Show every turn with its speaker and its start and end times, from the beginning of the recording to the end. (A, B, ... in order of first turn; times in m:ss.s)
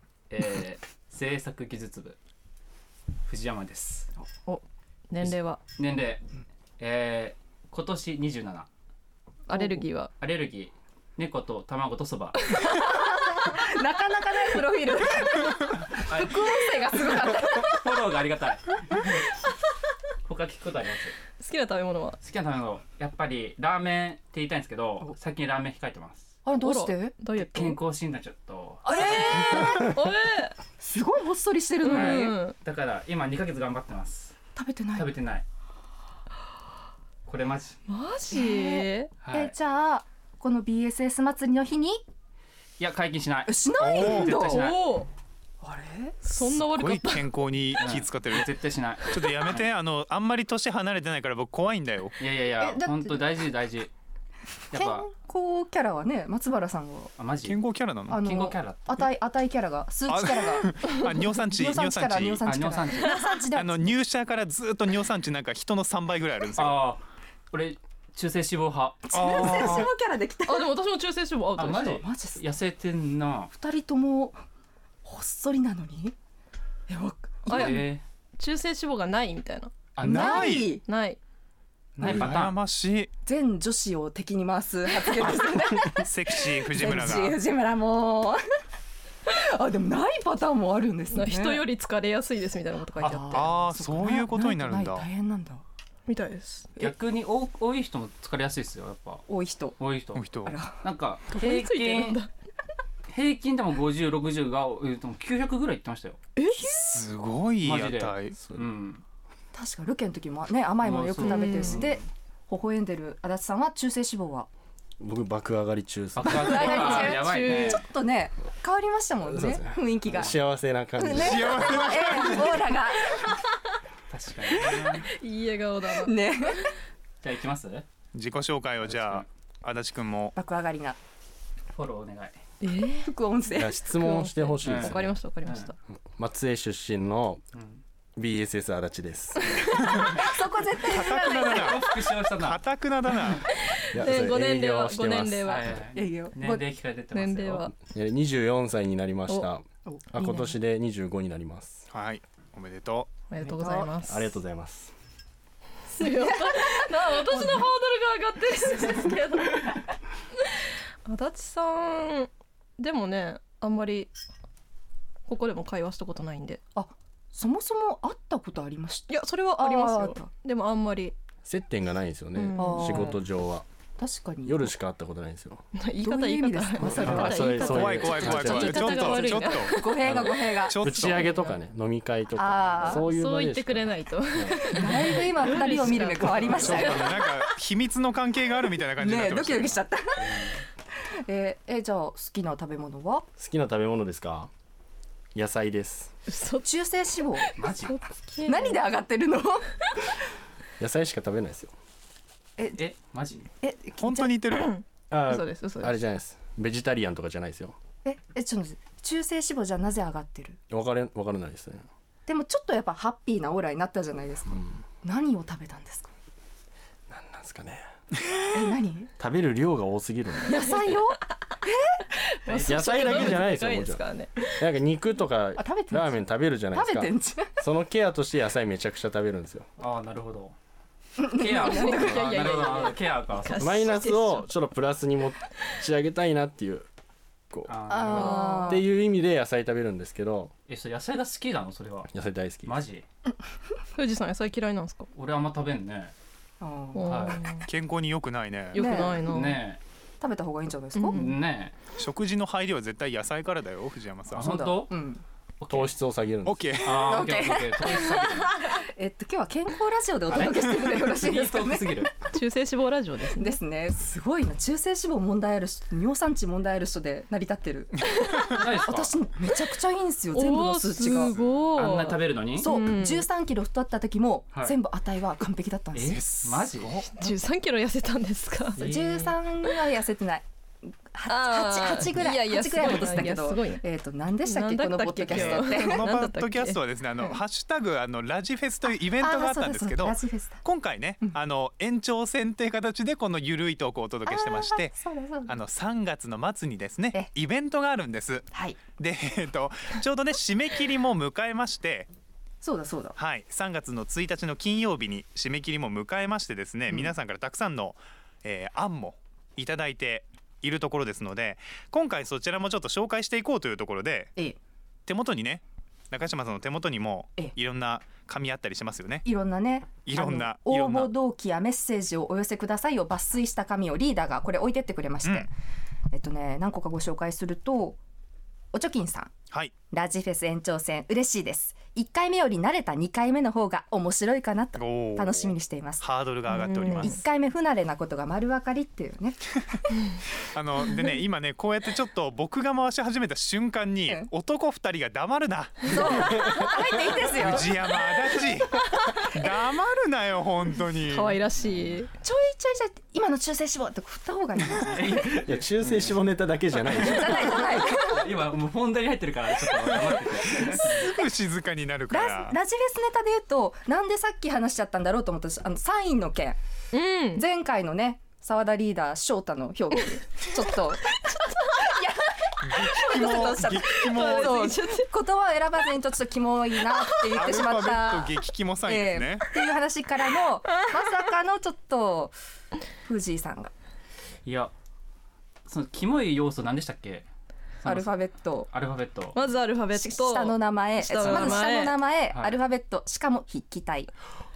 0:00.3-0:02.2 A
0:03.2-0:04.1 A
0:04.4-0:05.6 B
0:05.2-0:06.3 A
0:06.8-0:08.7 A
0:09.5-0:10.1 B
0:09.5-0:09.8 C
0:10.2-0:12.4 A
0:12.6-0:17.7 C
0:16.1-0:19.3 A
0:20.2-0:21.1 A
0:21.4-0:22.2 B
0:22.2-0:26.2 A
0:26.4-0:27.2 C
0:26.6-0:27.8 B
0:27.3-0:29.8 A
0:28.8-0:30.0 C
0:29.7-0:30.6 B
0:30.8-0:32.4 C
0:31.8-0:32.6 B
0:31.8-0:34.3 A
0:34.6-0:35.1 C
0:34.9-0:35.4 A
0:37.2-0:37.8 A
0:37.9-0:39.1 B
0:38.3-0:42.0 C
0:39.2-0:39.5 A
0:42.8-0:45.0 A
0:43.5-0:44.6 C
0:43.8-0:44.4 D
0:44.5-0:45.1 B
0:45.6-0:46.2 C
0:46.2-0:47.3 B
0:46.4-0:48.5 D
0:47.8-0:49.7 A
0:49.1-0:52.2 D
0:52.2-0:53.9 A
0:52.6-0:53.2 C
0:54.7-0:55.1 A
0:54.7-0:57.1 C
0:57.2-0:57.6 A
0:57.4-0:58.2 D
0:58.1-1:00.7 C
0:58.2-0:59.0 A
1:00.1-1:02.4 D
1:01.5-1:03.9 C
1:02.4-1:03.3 A
1:03.5-1:06.8 D
1:06.6-1:09.8 A
1:09.0-1:10.8 C
1:09.1-1:09.8 D
1:10.4-1:12.0 B
1:11.6-1:13.5 A
1:11.9-1:12.4 C
1:13.5-1:14.4 C
1:15.0-1:16.1 C
1:16.9-1:17.9 C
1:17.4-1:19.7 B
1:17.5-1:18.0 A
1:19.9-1:20.5 A
1:20.0-1:20.8 C
1:20.0-1:20.7 D
1:20.7-1:21.2 B
1:22.0-1:22.6 A
1:22.0-1:23.1 D
1:22.0-1:22.4 C
1:23.2-1:28.4 C
1:26.0-1:27.4 D
1:29.2-1:31.6 C
1:31.1-1:33.5 B
1:33.0-1:35.6 C
1:33.0-1:35.0 D
1:36.1-1:36.7 B
1:36.8-1:39.2 A
1:39.3-1:39.8 C
1:39.8-1:40.3 A
1:40.1-1:40.6 D
1:40.4-1:40.8 C
1:40.8-1:42.2 A
1:41.3-1:42.3 B
1:43.1-1:46.2 A
1:46.4-1:47.0 B
1:46.5-1:47.0 C
1:46.9-1:48.4 D
1:47.6-1:49.0 A
1:49.5-1:54.5 C
1:50.8-1:52.0 A
1:51.2-1:51.8 B
1:55.0-1:57.1 E
1:56.1-1:57.8 A
1:56.2-2:00.4 C
1:56.6-1:57.8 B
1:59.2-2:02.1 E
2:01.0-2:03.3 C
2:01.2-2:02.5 D
2:04.1-2:05.0 A
2:04.9-2:06.6 B
2:05.9-2:06.7 C
2:07.2-2:07.8 A
2:08.1-2:10.4 D
2:08.8-2:09.2 A
2:10.3-2:11.0 C
2:11.7-2:12.4 A
2:12.6-2:13.1 B
2:13.0-2:13.8 C
2:13.5-2:15.2 E
2:13.9-2:15.8 B
2:14.6-2:15.7 A
2:16.1-2:17.4 E
2:17.5-2:17.8 A
2:18.2-2:19.7 E
2:19.7-2:20.1 A
2:20.0-2:22.1 C
2:20.9-2:23.4 D
2:21.1-2:22.6 A
2:23.3-2:25.8 B
2:23.9-2:25.5 E
2:25.4-2:27.7 A
2:25.9-2:26.6 C
2:27.1-2:27.7 B
2:27.8-2:31.8 E
2:29.8-2:30.5 C
2:31.9-2:33.1 D
2:33.3-2:34.2 B
2:33.4-2:33.9 C
2:34.0-2:34.9 E
2:36.0-2:39.8 B
2:36.0-2:37.6 C
2:41.1-2:44.1 B
2:45.3-2:46.6 B
2:46.7-2:50.3 C
2:49.1-2:51.1 B
2:51.4-2:53.6 E
2:52.3-2:53.1 B
2:52.6-2:53.2 C
2:54.0-2:54.7 C
2:54.4-2:55.6 E
2:55.7-3:00.1 B
2:56.0-2:58.5 C
2:56.8-2:59.2 E
2:57.6-2:59.8 D
2:59.2-3:01.6 C
3:00.0-3:04.6 E
3:00.6-3:01.2 D
3:02.3-3:03.0 C
3:02.8-3:07.2 B
3:04.7-3:07.1 C
3:06.4-3:06.8 A
3:06.6-3:09.8 D
3:09.0-3:10.6 C
3:10.2-3:10.6 A
3:11.2-3:13.3 C
3:13.4-3:14.5 E
3:15.3-3:16.1 E
3:16.3-3:16.8 B
3:16.6-3:17.4 C
3:17.3-3:18.9 B
3:17.6-3:18.0 A
3:18.4-3:20.1 C
3:20.8-3:21.7 E
3:22.6-3:22.8 C
3:22.7-3:23.4 A
3:23.6-3:24.3 C
3:24.0-3:24.7 D
3:24.5-3:26.0 B
3:25.1-3:27.8 E
3:28.0-3:30.6 C
3:30.7-3:31.8 E
3:32.2-3:36.1 C
3:37.1-3:37.8 E
3:38.5-3:39.1 C
3:39.2-3:40.6 E
3:40.4-3:42.0 C
3:42.4-3:44.6 B
3:42.5-3:43.4 A
3:42.6-3:44.0 E
3:44.6-3:49.7 E
3:45.6-3:46.2 C
3:46.7-3:47.6 C
3:49.8-3:50.5 A
3:51.2-3:52.6 C
3:51.3-3:54.0 A
3:51.6-3:54.5 B
3:53.6-3:56.9 E
3:57.5-4:00.5 E
3:57.7-3:58.5 A
3:57.9-3:58.8 C
3:58.2-3:58.7 B
4:00.7-4:02.1 A
4:02.1-4:02.8 E
4:02.6-4:03.0 A
4:03.9-4:05.1 B
4:05.1-4:06.1 A
4:06.6-4:07.4 C
4:06.9-4:07.6 B
4:07.0-4:07.4 A
4:07.6-4:08.9 D
4:08.7-4:09.6 B
4:08.8-4:09.2 C
4:09.2-4:09.8 A
4:10.2-4:11.3 C
4:10.9-4:11.4 B
4:11.1-4:11.7 A
4:12.0-4:14.5 D
4:14.3-4:15.2 C
4:14.3-4:15.0 A
4:15.6-4:15.9 A
4:15.7-4:16.6 E
4:16.4-4:17.2 D
4:16.8-4:18.5 A
4:16.9-4:22.1 C
4:20.3-4:22.1 A
4:22.2-4:23.6 B
4:23.4-4:28.0 C
4:28.1-4:28.6 D
4:28.5-4:29.1 A
4:28.8-4:36.2 C
4:30.3-4:33.3 B
4:31.0-4:31.7 D
4:31.8-4:32.7 A
4:34.5-4:34.8 A
4:35.9-4:36.9 A
4:36.0-4:37.3 D
4:37.0-4:38.9 B
4:38.8-4:39.3 A
4:38.8-4:40.5 C
4:41.1-4:46.0 C
4:41.3-4:43.8 B
4:44.4-4:46.8 B
4:45.3-4:55.0 D
4:49.2-4:50.6 C
4:54.2-4:55.5 C
4:55.5-5:02.1 D
4:58.5-4:58.8 C
5:02.6-5:03.2 C
5:03.2-5:14.3 D
5:15.1-5:19.2 D
5:19.2-5:25.5 C
5:20.0-5:21.1 D
5:26.1-5:28.0 C
5:28.7-5:29.3 C
5:29.9-5:36.0 C
5:34.8-5:37.2 D
5:36.5-5:37.1 B
5:37.0-5:39.6 C
5:40.5-5:46.3 D
5:45.9-5:47.7 C
5:47.3-5:51.4 D
5:51.0-5:52.1 B
5:51.6-5:52.0 A
5:52.2-5:55.4 C
5:54.9-5:56.2 A
5:55.3-5:57.5 E
5:56.9-6:01.0 A
5:56.9-5:58.3 C
5:59.8-6:00.1 D
6:00.5-6:01.3 C
6:01.0-6:02.6 D
6:02.1-6:06.6 C
6:06.9-6:07.4 B
6:07.3-6:18.3 C
6:12.6-6:14.7 D
6:13.2-6:15.1 B
6:17.3-6:19.4 D
6:18.8-6:22.3 C
6:23.0-6:23.7 C
6:24.4-6:24.7 A
6:25.6-6:27.3 A
6:27.8-6:29.4 A
6:27.8-6:28.7 C
6:29.3-6:32.0 B
6:29.9-6:34.1 C
6:31.2-6:31.6 A
6:32.3-6:32.6 A